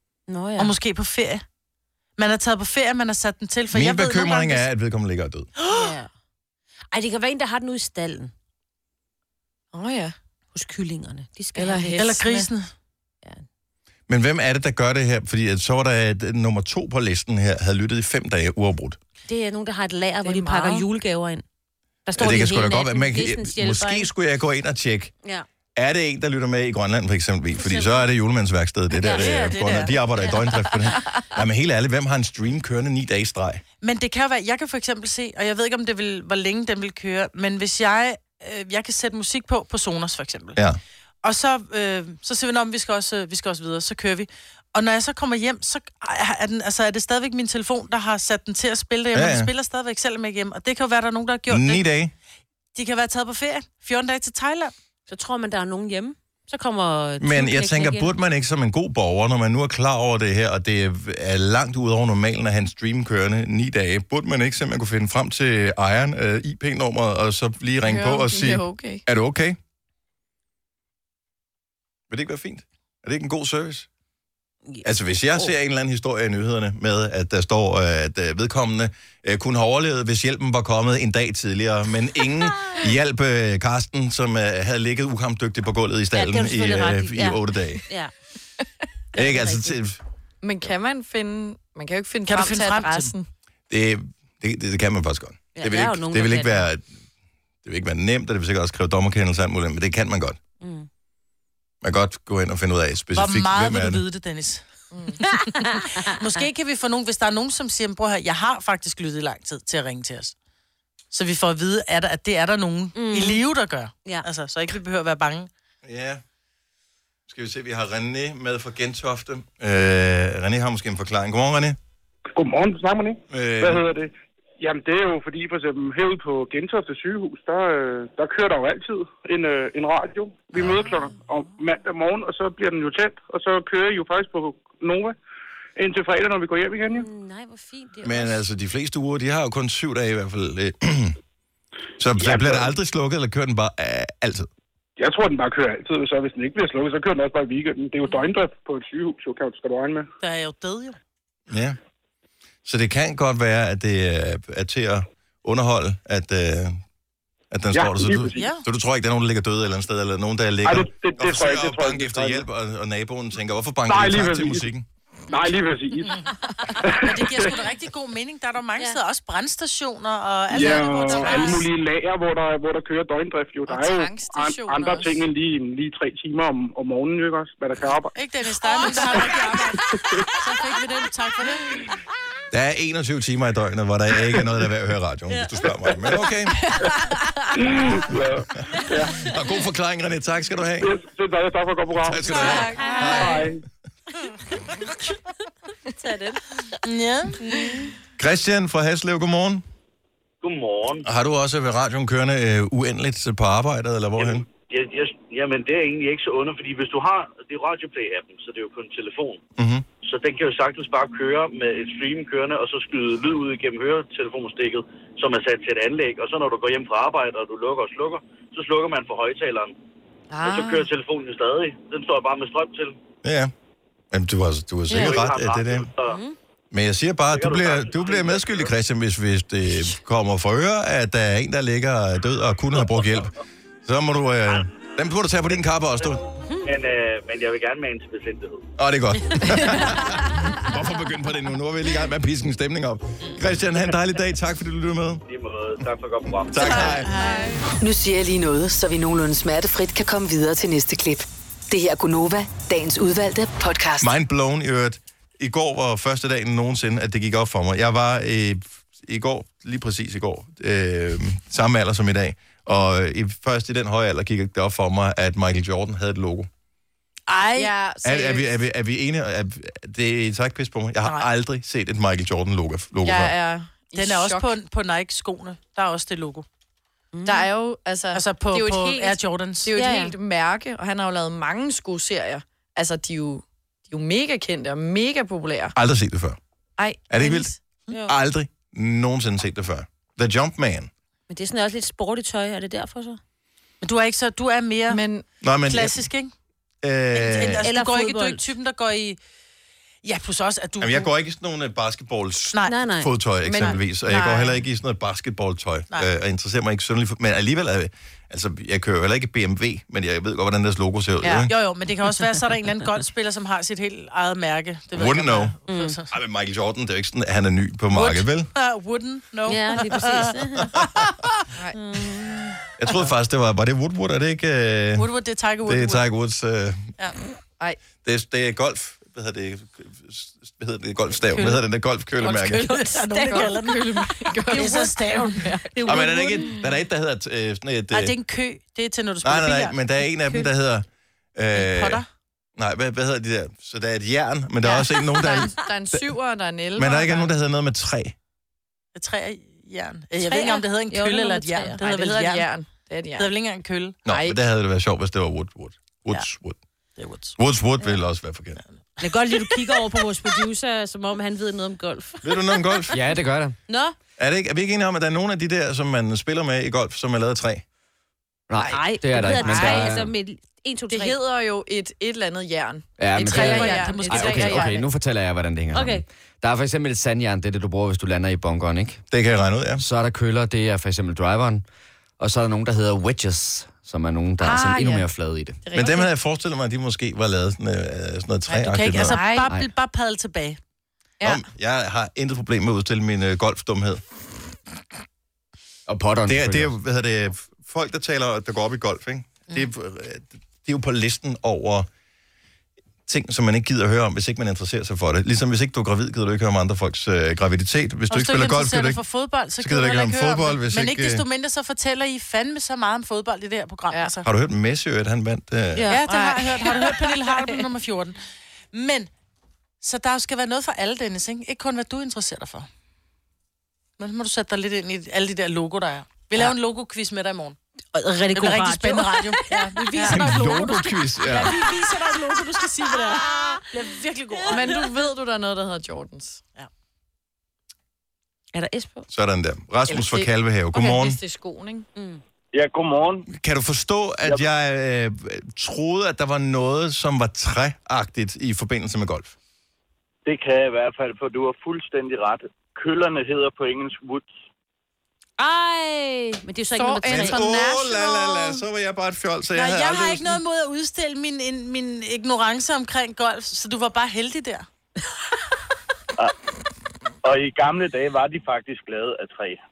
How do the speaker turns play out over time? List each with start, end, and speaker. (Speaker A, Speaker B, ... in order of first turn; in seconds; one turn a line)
Speaker A: 0.3-0.7
Speaker B: 0.6-1.4
Speaker B: 2.2-4.7
Speaker C: 3.7-5.5
Speaker B: 5.6-6.0
Speaker A: 5.7-6.1
Speaker A: 6.9-8.3
Speaker D: 9.7-10.2
Speaker A: 10.5-12.2
Speaker D: 11.6-12.5
Speaker B: 12.0-12.7
Speaker C: 14.1-19.0
Speaker A: 19.3-21.4
Speaker D: 20.2-20.9
Speaker A: 22.1-24.1
Speaker C: 22.2-25.1
Speaker C: 25.8-33.6
Speaker A: 27.6-28.0
Speaker A: 29.0-31.1
Speaker B: 29.1-30.0
Speaker B: 33.8-40.6
Speaker B: 41.2-51.8
Speaker C: 49.1-49.5
Speaker C: 51.5-52.1
Speaker B: 52.8-54.7
Speaker A: 55.1-58.1
Speaker C: 57.2-69.6
Speaker D: 67.8-69.0
Speaker C: 72.1-73.9
Speaker A: 74.7-75.5
Speaker C: 74.8-87.8
Speaker A: 82.5-82.9
Speaker A: 86.1-88.1
Speaker A: 89.2-89.7
Speaker C: 89.2-90.0
Speaker D: 90.4-93.3
Speaker B: 92.3-93.1
Speaker C: 93.7-96.8
Speaker A: 95.6-96.7
Speaker C: 97.7-100.4
Speaker A: 100.6-100.9
Speaker C: 101.8-104.0
Speaker B: 103.1-104.6
Speaker D: 104.9-105.2
Speaker B: 105.2-105.5
Speaker A: 105.3-106.1
Speaker B: 106.0-110.3
Speaker B: 111.1-115.5
Speaker A: 113.0-113.4
Speaker C: 115.8-116.2
Speaker C: 117.3-121.8
Speaker E: 122.3-135.2
Speaker C: 123.3-123.8
Speaker C: 130.6-130.8
Speaker A: 130.7-131.1
Speaker E: 135.8-137.1
Speaker A: 136.8-138.4
Speaker C: 138.0-141.2
Speaker C: 142.0-144.5
Speaker E: 142.2-142.7
Speaker E: 145.0-150.1
Speaker B: 150.2-151.0
Speaker C: 151.5-151.8
Speaker C: 152.7-156.8
Speaker C: 157.5-164.9
Speaker E: 157.7-158.5
Speaker B: 158.3-158.6
Speaker E: 160.6-162.5
Speaker E: 163.9-164.7
Speaker E: 165.3-166.2
Speaker B: 166.0-166.3
Speaker E: 166.8-167.6
Speaker B: 166.9-171.7
Speaker E: 170.5-178.1
Speaker A: 170.8-171.6
Speaker D: 173.7-175.2
Speaker B: 178.1-181.7
Speaker D: 178.8-179.4
Speaker E: 179.9-180.3
Speaker C: 182.5-186.7
Speaker D: 186.6-187.2
Speaker E: 187.6-189.2
Speaker A: 188.8-189.3
Speaker C: 189.2-191.0
Speaker E: 190.8-192.5
Speaker C: 192.0-193.5
Speaker D: 192.3-193.3
Speaker A: 192.3-193.5
Speaker E: 193.1-193.6
Speaker A: 196.0-196.4
Speaker B: 196.8-197.4
Speaker A: 197.4-197.8
Speaker C: 198.2-199.6
Speaker F: 200.4-201.1
Speaker C: 201.0-204.4
Speaker F: 204.2-209.4
Speaker C: 209.6-209.8
Speaker F: 210.0-219.7
Speaker D: 220.3-220.9
Speaker F: 220.4-223.0
Speaker C: 223.2-223.5
Speaker C: 224.1-225.9
Speaker D: 224.9-225.2
Speaker F: 224.9-226.2
Speaker A: 226.1-226.4
Speaker C: 226.7-233.3
Speaker F: 227.3-228.7
Speaker C: 233.8-236.2
Speaker F: 236.6-238.7
Speaker C: 238.8-245.2
Speaker F: 245.3-246.9
Speaker C: 246.5-247.1
Speaker D: 246.6-247.7
Speaker B: 246.7-247.6
Speaker G: 247.8-254.2
Speaker C: 254.0-266.5
Speaker B: 267.3-267.7
Speaker D: 267.6-268.5
Speaker C: 268.0-273.3
Speaker D: 273.0-274.5
Speaker B: 273.9-276.5
Speaker A: 277.1-277.5
Speaker D: 277.2-285.7
Speaker B: 278.1-279.7
Speaker A: 279.7-280.1
Speaker C: 285.8-286.4
Speaker D: 286.8-287.6
Speaker C: 287.1-287.5
Speaker C: 288.1-290.9
Speaker A: 291.3-293.2
Speaker B: 293.8-295.0
Speaker D: 294.9-295.2
Speaker C: 295.4-296.0
Speaker B: 295.6-296.3
Speaker C: 296.8-297.7
Speaker B: 297.1-299.2
Speaker A: 297.6-298.5
Speaker B: 300.0-301.1
Speaker C: 300.8-311.5
Speaker A: 302.7-303.1
Speaker D: 303.4-304.6
Speaker D: 311.2-311.5
Speaker B: 311.5-316.1
Speaker C: 314.9-315.6
Speaker A: 315.7-316.0
Speaker C: 316.1-318.5
Speaker B: 318.5-320.5
Speaker A: 319.5-320.8
Speaker D: 321.5-321.8
Speaker A: 321.7-322.6
Speaker C: 322.8-325.1
Speaker B: 325.0-326.0
Speaker C: 325.6-326.9
Speaker C: 328.0-332.7
Speaker B: 331.3-331.6
Speaker D: 332.2-335.7
Speaker B: 332.5-335.6
Speaker A: 333.1-333.6
Speaker A: 335.7-336.6
Speaker C: 335.9-338.1
Speaker B: 337.9-339.8
Speaker C: 339.2-342.0
Speaker B: 341.5-342.1
Speaker C: 342.6-346.0
Speaker D: 345.1-347.3
Speaker C: 346.8-348.1
Speaker B: 348.9-352.5
Speaker A: 350.2-351.8
Speaker D: 351.8-353.3
Speaker B: 353.2-354.0
Speaker C: 354.1-356.6
Speaker D: 354.1-354.4
Speaker B: 357.0-357.4
Speaker C: 357.4-358.6
Speaker A: 359.0-362.9
Speaker B: 359.0-359.8
Speaker C: 362.2-362.9
Speaker H: 362.9-363.6
Speaker A: 363.7-364.0
Speaker C: 364.2-367.6
Speaker H: 368.5-370.1
Speaker A: 368.7-371.2
Speaker D: 368.9-370.1
Speaker D: 370.9-374.9
Speaker H: 373.0-379.0
Speaker B: 373.2-374.8
Speaker A: 373.6-373.9
Speaker A: 375.7-376.0
Speaker C: 379.1-379.8
Speaker H: 379.8-381.6
Speaker H: 382.2-385.6
Speaker D: 384.4-385.1
Speaker D: 385.6-386.1
Speaker C: 385.7-389.2
Speaker B: 388.5-390.6
Speaker D: 389.1-389.5
Speaker C: 391.2-394.0
Speaker H: 395.9-396.7
Speaker C: 396.3-401.9
Speaker C: 403.1-409.0
Speaker B: 408.1-414.3
Speaker C: 409.6-411.2
Speaker C: 414.2-415.9
Speaker A: 415.8-416.1
Speaker B: 415.9-418.2
Speaker D: 416.1-417.6
Speaker B: 418.7-419.1
Speaker B: 419.8-422.7
Speaker B: 424.0-427.6
Speaker A: 427.9-430.2
Speaker B: 428.3-434.8
Speaker C: 430.1-431.6
Speaker D: 434.5-436.4
Speaker A: 438.5-439.1
Speaker C: 439.1-441.2
Speaker D: 439.9-441.9
Speaker A: 442.0-442.2
Speaker F: 442.5-443.3
Speaker C: 443.3-449.4
Speaker F: 450.3-454.3
Speaker A: 455.4-457.7
Speaker D: 456.7-458.4
Speaker C: 457.1-460.4
Speaker B: 459.5-464.7
Speaker F: 467.2-469.6